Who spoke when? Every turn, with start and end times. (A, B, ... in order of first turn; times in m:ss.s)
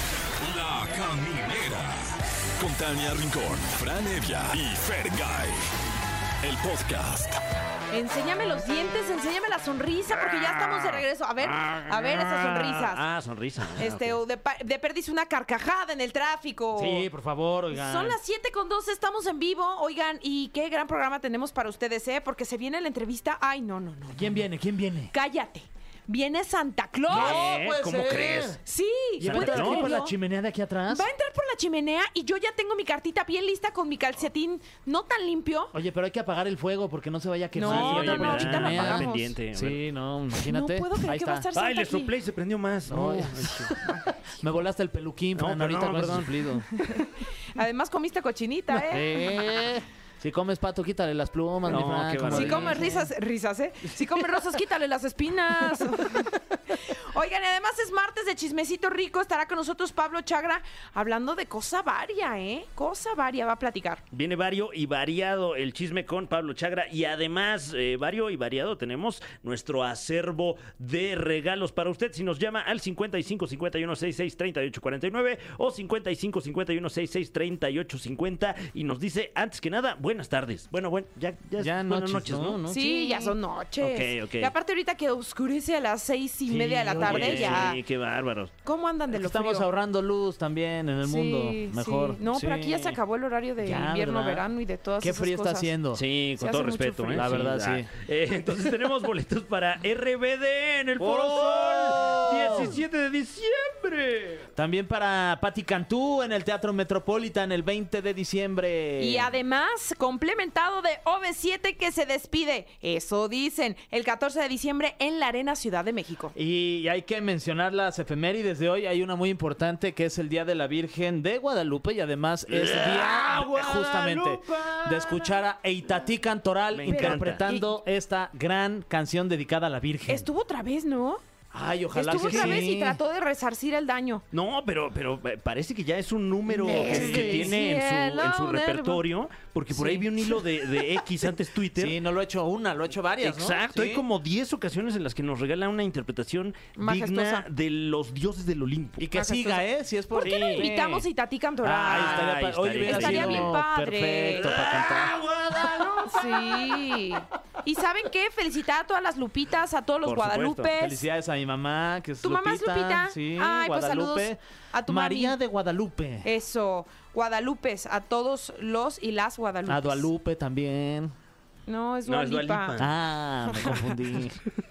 0:00.4-0:05.6 A
0:06.4-0:07.4 A
0:07.9-0:13.0 B
0:11.4-0:14.2 C
0:13.8-0:17.0 B
0:16.8-0:18.2 D
0:17.7-0:24.5 B
0:24.1-0:25.1 D
0:25.1-0:27.5 B
0:27.1-0:28.6 C
0:27.1-0:28.6 D
0:28.2-0:30.2 B
0:29.2-0:31.0 D
0:29.2-0:30.0 C
0:30.9-0:35.7 B
0:35.7-0:41.5 D
0:37.5-0:39.3 B
0:37.6-0:39.8 C
0:40.4-0:42.1 B
0:41.5-0:43.9 C
0:42.9-0:43.9 D
0:44.4-0:46.7 D
0:45.4-0:46.4 C
0:46.8-0:49.4 B
0:48.9-0:53.1 D
0:51.7-0:52.8 C
0:52.3-1:04.0 B
1:04.1-1:22.6 C
1:21.6-1:23.3 D
1:22.7-1:27.8 B
1:23.8-1:24.5 C
1:26.5-1:28.5 C
1:26.5-1:27.7 D
1:28.6-1:29.6 B
1:29.1-1:33.0 D
1:31.0-1:35.7 B
1:33.6-1:34.4 D
1:35.0-1:36.0 D
1:35.9-1:44.5 C
1:36.4-1:37.4 B
1:37.2-1:37.9 D
1:41.0-1:42.7 D
1:44.6-1:49.3 D
1:49.0-1:56.3 B
1:56.3-2:10.3 D
2:02.5-2:05.3 C
2:06.7-2:07.4 C
2:06.9-2:07.7 B
2:10.1-2:11.2 B
2:11.5-2:13.0 D
2:11.9-2:14.2 B
2:12.1-2:12.6 C
2:14.3-2:22.0 C
2:16.5-2:19.0 B
2:16.6-2:17.5 D
2:19.7-2:20.0 D
2:21.8-2:24.0 D
2:23.2-2:29.0 C
2:26.8-2:27.4 B
2:29.0-2:31.0 D
2:29.1-2:34.8 B
2:30.2-2:30.7 C
2:31.6-2:33.5 C
2:31.6-2:35.1 D
2:34.4-2:36.9 C
2:35.8-2:41.0 B
2:40.0-2:40.7 C
2:40.7-2:46.3 D
2:42.2-2:45.3 B
2:46.2-2:50.1 B
2:49.7-2:51.1 D
2:51.7-2:52.8 B
2:52.0-2:53.0 C
2:52.8-2:54.4 D